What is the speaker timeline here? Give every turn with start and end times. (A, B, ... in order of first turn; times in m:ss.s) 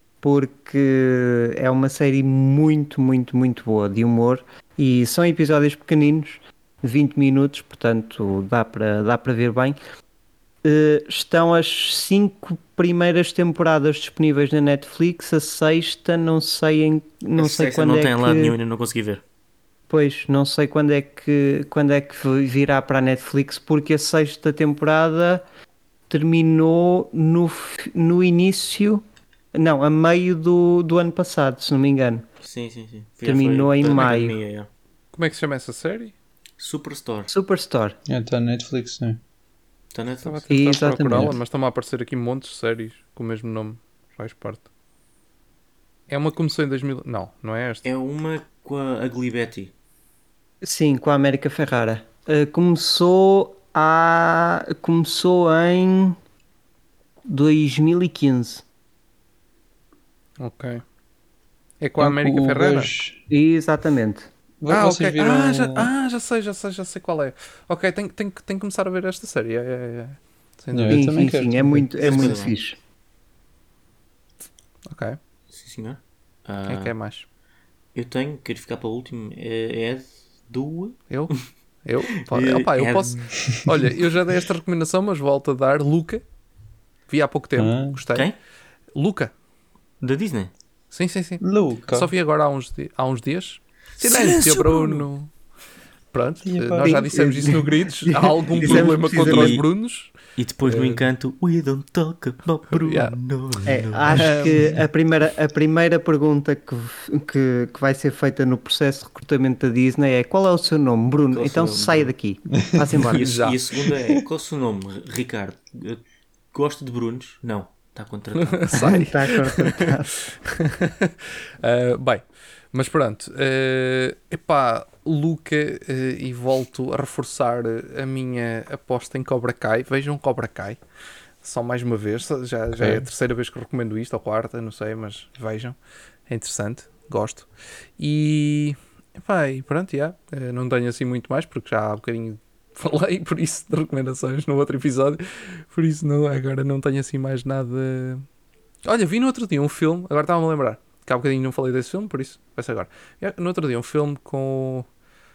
0:00.2-0:09.8 A
0:10.6-0:18.6 A
0:17.4-0:19.2 B
0:19.9-0:25.4 A
0:26.1-0:29.0 A
0:29.5-0:32.2 A
0:32.4-0:34.7 B
0:33.2-0:34.4 A
0:35.1-0:36.1 C
0:36.6-0:37.3 B
0:37.3-0:38.0 A
0:38.1-0:39.2 D
0:39.9-0:40.4 B
0:40.2-0:44.6 C
0:40.5-0:41.4 A
0:46.1-0:47.8 C
0:47.8-0:49.7 B
0:50.6-0:56.2 A
0:57.3-0:58.6 A
1:00.4-1:00.8 C
1:01.8-1:02.9 C
1:02.0-1:03.2 D
1:03.3-1:04.3 A
1:04.6-1:05.9 D
1:04.7-1:11.1 C
1:10.7-1:12.2 D
1:10.9-1:12.8 A
1:12.0-1:12.6 B
1:14.9-1:15.2 C
1:15.5-1:16.9 B
1:16.7-1:17.2 C
1:17.9-1:21.5 B
1:21.1-1:26.2 C
1:22.3-1:23.4 B
1:27.1-1:28.3 C
1:27.6-1:28.0 D
1:28.9-1:29.3 C
1:30.0-1:30.5 B
1:30.9-1:35.3 C
1:31.4-1:32.1 D
1:34.0-1:35.1 B
1:36.1-1:41.0 C
1:36.4-1:37.0 D
1:36.8-1:39.6 A
1:38.5-1:39.6 B
1:40.4-1:44.3 B
1:42.8-1:43.1 C
1:43.7-1:53.4 A
1:44.2-1:44.6 C
1:51.3-1:52.1 B
1:52.5-1:52.9 D
1:53.0-1:59.0 B
1:53.2-1:53.6 C
1:58.4-2:10.8 C
1:58.7-2:00.1 A
2:11.4-2:28.2 C
2:12.7-2:13.1 D
2:28.8-2:34.9 C